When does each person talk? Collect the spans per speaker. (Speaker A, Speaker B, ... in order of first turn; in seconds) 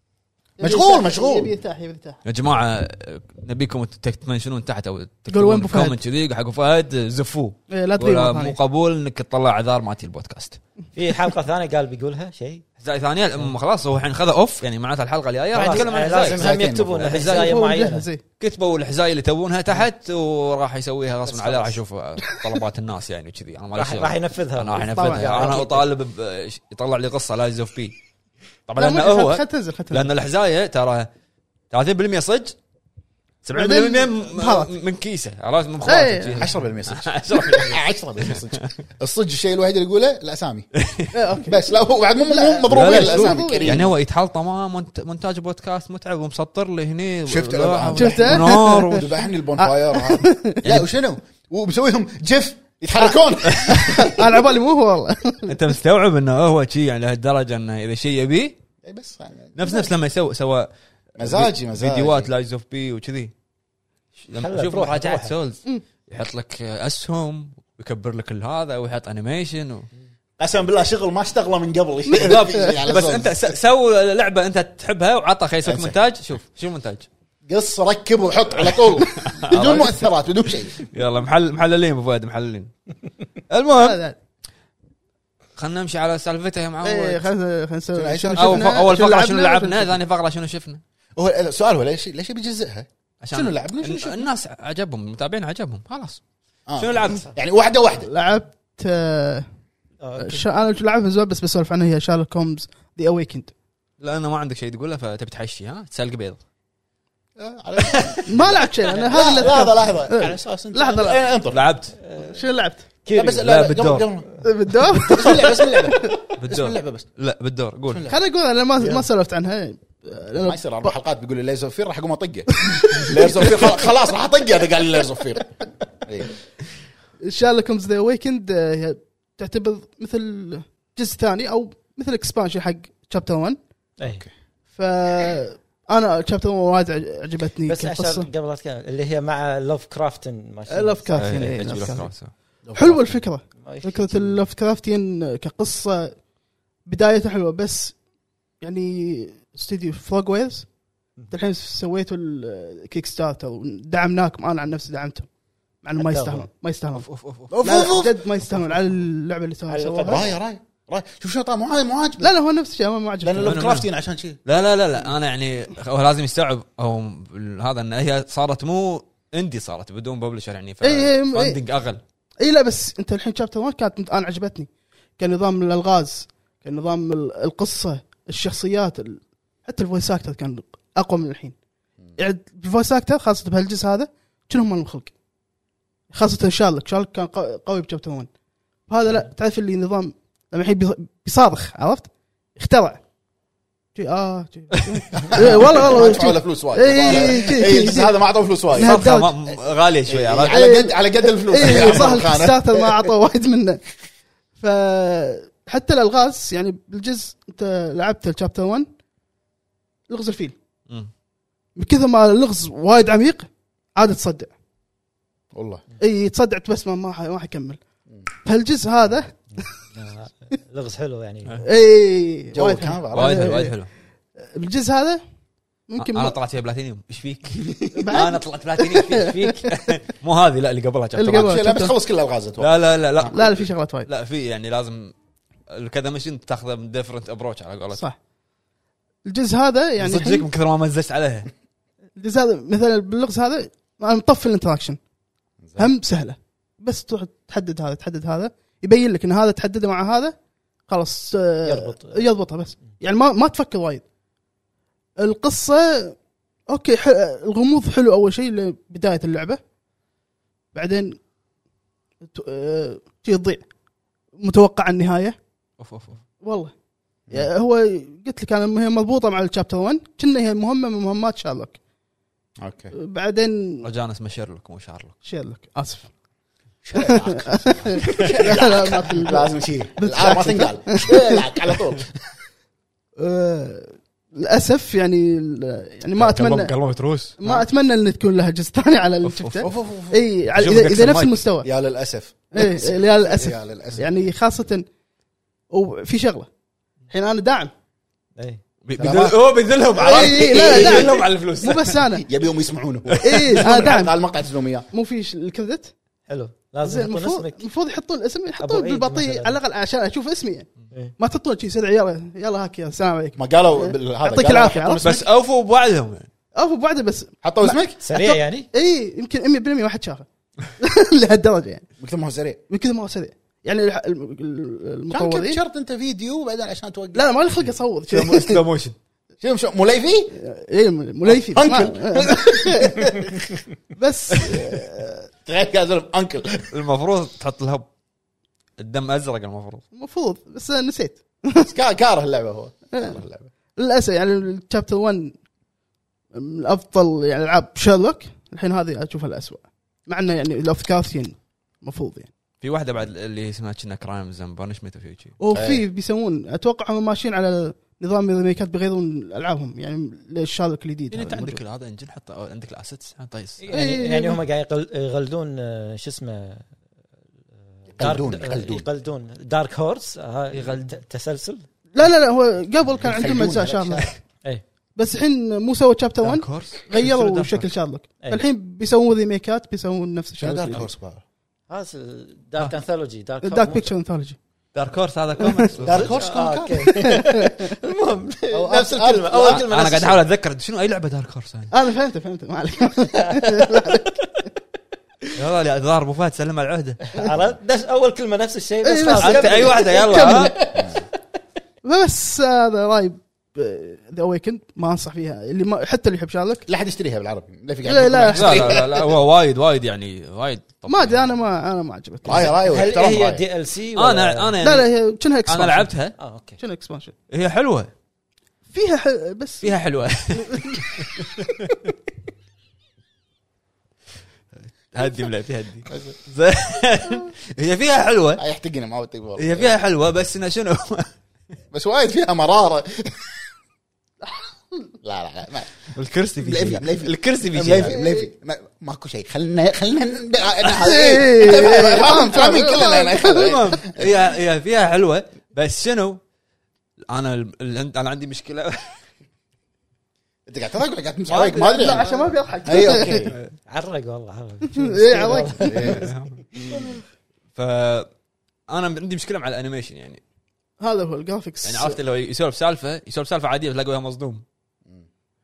Speaker A: 0.6-2.2, 5.3-6.0, 7.7-8.6, 17.3-18.2, 25.0-25.6, 28.8-30.1, 33.5-34.7, 35.8-36.5, 41.1-41.6, 42.2-43.8, 47.9-50.6, 53.0-55.6, 59.6-59.9, 72.1-72.7, 83.8-84.2, 86.8-89.9, 98.1-99.4, 100.2-103.5, 108.3-111.2, 112.2-112.8, 114.4-116.1, 118.1-120.9, 122.6-123.9, 127.2-133.6, 134.7-138.3, 140.7-142.1, 142.7-146.2, 146.8-148.0, 148.6-150.7, 151.3-155.3, 155.8-160.3, 162.2-163.6, 170.8-171.6, 172.4-181.5, 182.2-185.1, 186.1-188.3, 188.9-193.0, 193.9-198.1, 198.7-199.3, 200.5-203.8, 204.6-208.9, 210.1-210.5, 211.8-214.5, 216.0-217.8, 218.4-219.6, 221.6-223.8, 224.4-225.2, 225.9-226.4, 227.9-229.8, 231.2-231.9, 233.3-234.1, 239.2-240.4, 242.2-245.0, 245.8-250.3, 250.9-254.0, 255.2-256.1, 256.7-259.6, 260.7-261.2, 262.3-263.6, 264.4-265.4, 266.4-266.7, 267.3-271.8, 272.9-273.9, 275.2-276.1, 277.0-281.4, 283.2-286.7, 287.4-291.7, 292.5-294.9, 295.7-296.5, 297.1-297.7, 300.0-302.2, 303.2-304.1, 304.9-305.9, 306.8-315.0, 316.5-320.2, 320.8-321.9, 322.7-325.6, 327.1-328.6, 330.4-333.3, 333.9-335.3, 339.9-341.7, 343.8-345.3, 346.3-352.3, 355.4-361.6, 363.7-364.4, 371.9-374.1, 374.9-380.8, 383.4-384.4, 385.4-385.7, 387.0-387.7, 391.7-394.2, 398.8-400.7, 401.8-406.6, 407.8-408.8, 410.9-412.5, 414.6-415.9, 416.6-417.1, 418.7-419.7, 420.3-420.9, 437.8-438.2, 440.7-443.8, 451.8-453.3, 454.7-455.8, 460.8-462.0
Speaker B: 0.6-1.6, 16.1-17.3, 36.3-40.7, 41.5-43.9, 47.2-54.1, 58.8-59.6, 61.2-62.3, 70.4-73.5, 75.6-76.0, 77.5-80.9, 87.9-88.8, 91.2-94.3, 96.7-98.1, 107.4-111.7, 113.1-114.3, 115.0-117.1, 117.9-118.2, 120.4-126.3, 134.0-134.3, 142.6-143.1, 157.6-158.2, 160.0-162.3, 163.2-164.4, 195.1-199.0, 200.1-203.1, 215.5-215.8, 222.5-223.5, 231.4-233.3, 245.6-245.9, 272.6-272.9, 276.8-282.1, 289.6-290.2, 291.6-294.2, 299.0-299.4, 299.9-301.2, 302.2-304.9, 313.4-315.2, 317.4-318.0, 322.0-322.6, 325.1-327.3, 329.4-330.4, 331.2-333.3, 335.4-336.7, 341.6-343.5, 355.5-355.8, 367.9-368.9, 372.9-374.1, 380.4-381.2, 385.8-387.0, 388.5-390.1, 400.7-401.0, 406.7-409.2, 412.2-413.4, 425.9-426.1, 428.4-429.7, 431.7-433.3, 435.0-435.8, 436.4-444.1, 450.5-452.1, 452.6-453.4, 455.6-456.1
Speaker C: 2.2-10.6, 12.8-17.6, 18.4-27.9, 28.7-31.1, 31.7-32.5, 33.4-38.7, 40.8-41.1, 42.7-49.1, 53.4-54.1, 55.5-58.5, 59.5-63.3, 64.2-69.9, 72.1-77.1, 78.6-80.0, 80.8-82.7, 83.5-84.0, 85.5-87.2, 88.3-90.8, 93.2-96.2, 96.8-97.3, 104.0-106.4, 107.8-108.6, 111.5-112.0, 113.3-114.1, 116.4-118.1, 141.2-142.3, 156.9-158.6, 163.4-163.9, 164.4-172.0, 198.8-200.6, 201.6-202.1, 223.1-223.9, 226.0-231.6, 232.6-235.1, 235.7-238.0, 240.0-241.5, 265.8-266.2, 273.8-275.1, 278.1-278.6, 286.1-287.4, 289.2-289.8, 290.5-291.4, 298.8-302.2, 303.1-303.9, 315.0-316.3, 328.1-328.9, 336.7-337.9, 338.8-339.8, 352.6-355.3, 361.1-363.6, 370.5-370.9, 376.2-377.7, 384.7-386.2, 389.5-391.7, 395.3-397.0, 399.2-400.5, 408.3-411.3, 413.9-414.9, 415.5-416.1, 417.3-417.9, 419.6-421.8, 424.9-428.4, 429.4-431.1, 435.9-437.9, 443.2-446.2, 447.1-449.0, 451.3-453.5, 455.7-456.4, 457.5-458.1, 458.7-460.2, 461.6-464.4
Speaker D: 10.9-12.6, 15.5-18.1, 21.2-21.8, 23.7-25.9, 64.3-65.3, 100.0-100.4, 108.9-109.5, 112.0-112.4, 113.0-113.5, 118.8-119.0, 134.0-134.2, 137.7-142.0, 143.6-144.4, 156.0-156.5, 159.7-160.3, 219.5-221.5, 251.7-252.2, 298.4-298.6, 306.3-307.6, 308.6-309.6, 318.0-318.7, 363.6-366.6, 367.9-371.6, 381.7-383.9, 385.9-390.2, 393.1-394.1, 397.1-400.8, 412.6-414.5, 416.2-416.6, 453.7-456.2